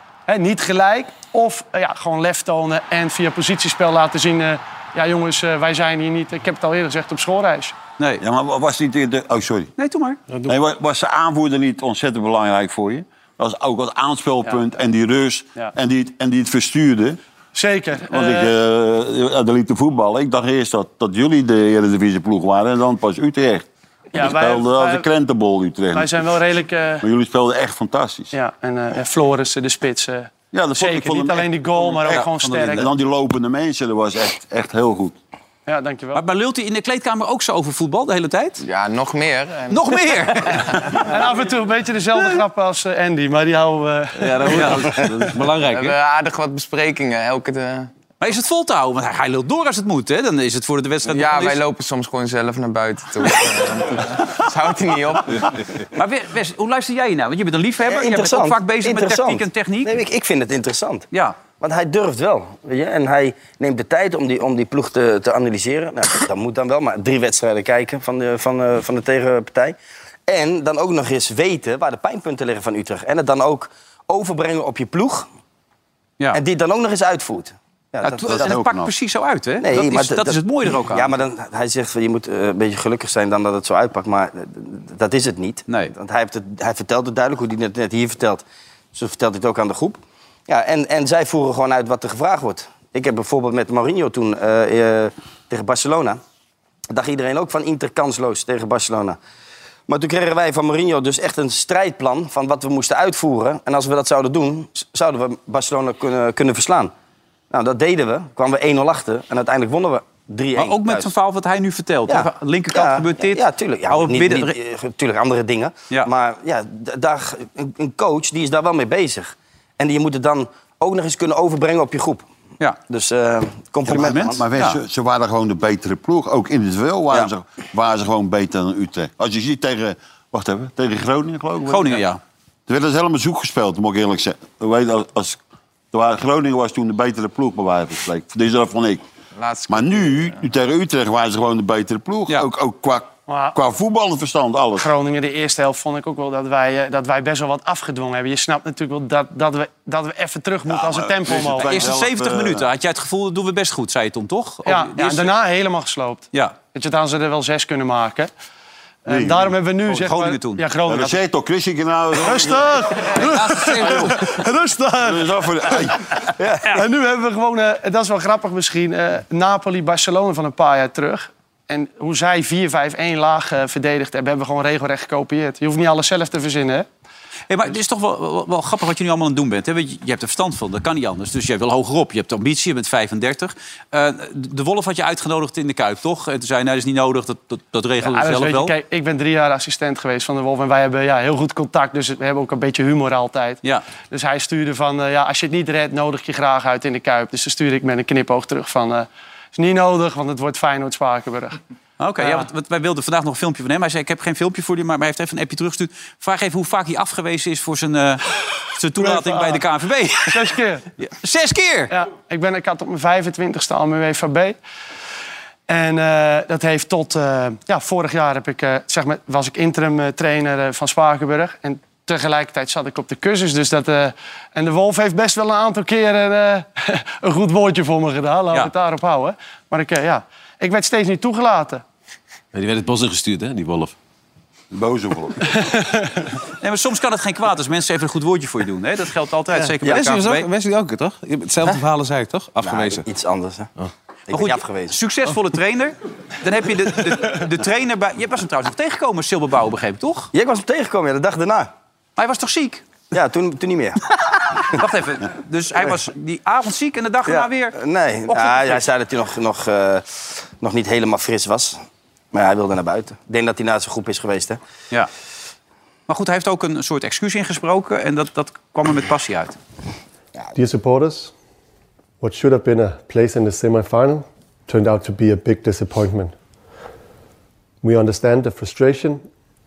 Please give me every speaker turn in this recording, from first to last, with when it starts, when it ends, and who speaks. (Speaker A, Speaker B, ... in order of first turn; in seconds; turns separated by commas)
Speaker A: 0.3-7.8, Speaker B: 8.2-9.7, Speaker C: 9.8-10.2, Speaker B: 10.5-17.2, Speaker A: 17.5-18.5, Speaker B: 18.1-26.3, Speaker A: 24.1-25.1, Speaker A: 25.9-27.0, Speaker B: 27.0-28.3, Speaker A: 28.3-32.9, Speaker B: 30.5-35.2, Speaker C: 32.1-32.9, Speaker A: 35.7-36.2, Speaker C: 36.1-38.6, Speaker D: 38.6-40.9, Speaker C: 39.7-41.1, Speaker A: 41.0-44.8, Speaker E: 44.2-45.5, Speaker C: 44.5-46.0, Speaker D: 45.6-47.9, Speaker C: 48.2-51.6, Speaker D: 51.1-55.5, Speaker C: 55.9-60.0, Speaker F: 57.9-69.8, Speaker C: 61.1-61.4, Speaker F: 70.3-75.3, Speaker F: 76.3-78.6, Speaker C: 78.0-81.1, Speaker B: 78.3-78.9, Speaker F: 79.6-96.2, Speaker F: 96.9-99.2, Speaker F: 99.9-106.9, Speaker F: 107.5-111.1, Speaker C: 110.6-114.6, Speaker F: 112.1-122.2, Speaker F: 122.9-124.4, Speaker C: 123.9-124.8, Speaker B: 123.9-132.1, Speaker C: 131.7-132.2, Speaker B: 132.7-135.4, Speaker B: 135.9-139.0, Speaker D: 139.4-140.3, Speaker B: 139.7-144.9, Speaker A: 143.3-143.6, Speaker A: 144.8-151.9, Speaker B: 150.7-152.7, Speaker C: 151.6-155.3, Speaker A: 154.7-158.3, Speaker A: 159.1-161.2, Speaker B: 159.1-159.6, Speaker C: 159.9-160.6, Speaker B: 160.9-162.8, Speaker A: 162.2-165.9, Speaker E: 163.3-164.1, Speaker B: 163.7-164.2, Speaker B: 165.0-166.7, Speaker A: 166.6-176.9, Speaker C: 177.5-188.7, Speaker A: 188.0-201.6, Speaker C: 202.0-211.9, Speaker A: 202.2-202.5, Speaker A: 209.0-209.6, Speaker A: 210.3-210.9, Speaker A: 211.9-214.6, Speaker A: 215.7-231.8, Speaker E: 232.5-233.9, Speaker B: 234.7-235.5, Speaker A: 235.6-236.1, Speaker C: 236.6-240.5, Speaker E: 239.6-243.1, Speaker F: 242.6-243.7, Speaker F: 244.3-245.0, Speaker C: 244.3-250.3, Speaker F: 250.3-251.7, Speaker C: 252.2-252.8, Speaker F: 253.1-254.1, Speaker C: 254.7-257.8, Speaker F: 257.3-261.8, Speaker C: 258.3-258.9, Speaker F: 262.3-264.6, Speaker C: 266.1-269.6, Speaker G: 270.6-271.3, Speaker G: 272.2-276.4, Speaker G: 277.8-279.2